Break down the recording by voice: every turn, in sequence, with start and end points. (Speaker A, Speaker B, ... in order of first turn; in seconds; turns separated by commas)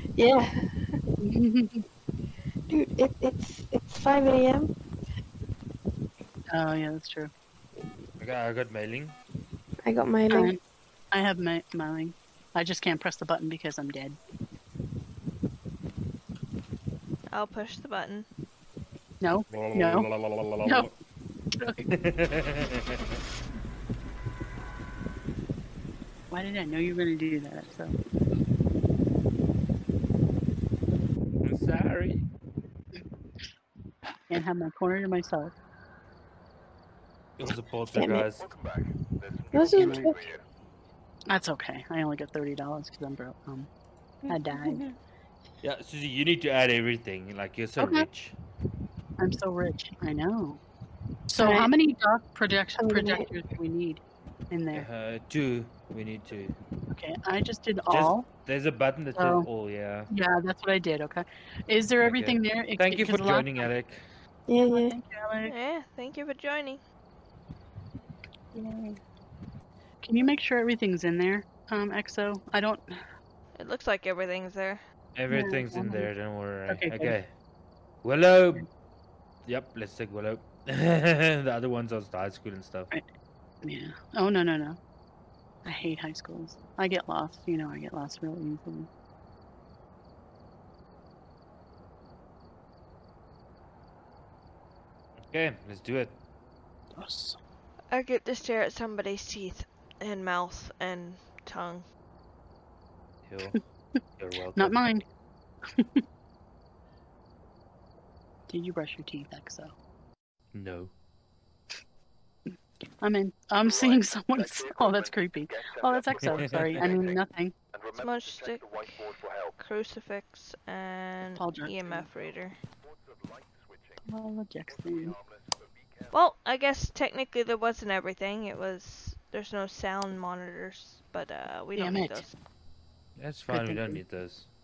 Speaker A: 0.1-1.0, Speaker B: 1.2-1.8, Speaker A: 2.7-4.7, Speaker B: 6.5-7.3, Speaker C: 8.2-9.2, Speaker A: 9.8-10.5, Speaker B: 10.3-10.6, Speaker B: 11.1-14.2, Speaker D: 17.3-18.2, Speaker B: 19.2-20.1, Speaker C: 19.5-20.9, Speaker B: 20.6-20.9, Speaker B: 21.5-21.9, Speaker C: 21.9-23.2, Speaker B: 26.3-27.9, Speaker C: 31.4-32.3, Speaker B: 34.3-35.5, Speaker C: 37.4-38.5, Speaker A: 37.9-38.2, Speaker E: 38.4-40.4, Speaker A: 39.5-40.3, Speaker B: 39.8-40.1, Speaker B: 41.3-43.7, Speaker B: 44.3-44.8, Speaker C: 45.6-48.3, Speaker B: 47.8-48.1, Speaker B: 49.2-50.6, Speaker B: 51.3-54.9, Speaker A: 51.4-51.7, Speaker A: 52.9-53.3, Speaker C: 54.7-56.5, Speaker B: 56.9-58.2, Speaker C: 57.9-60.1, Speaker B: 59.1-59.5, Speaker B: 60.1-63.7, Speaker C: 62.0-64.0, Speaker A: 64.5-65.0, Speaker B: 64.7-65.5, Speaker D: 65.5-66.8, Speaker B: 68.5-69.0, Speaker B: 70.0-73.0, Speaker D: 73.5-74.8, Speaker C: 75.1-77.3, Speaker B: 75.3-76.1, Speaker B: 76.7-77.2, Speaker C: 78.0-78.7, Speaker C: 79.5-82.9, Speaker B: 83.6-84.8, Speaker B: 85.6-88.9, Speaker C: 95.2-96.2, Speaker B: 97.0-97.4, Speaker D: 97.9-101.9, Speaker C: 103.2-104.8, Speaker B: 104.5-105.0, Speaker B: 105.6-106.0, Speaker B: 108.5-109.7, Speaker C: 110.5-110.9, Speaker B: 112.5-117.5, Speaker E: 113.6-119.6, Speaker C: 116.2-116.9, Speaker D: 118.0-119.0, Speaker D: 119.6-122.5, Speaker B: 121.4-122.0, Speaker E: 121.9-124.1, Speaker B: 124.0-125.1, Speaker E: 124.7-126.2, Speaker D: 126.1-132.3, Speaker B: 131.7-132.2, Speaker C: 133.2-134.5, Speaker B: 133.5-134.0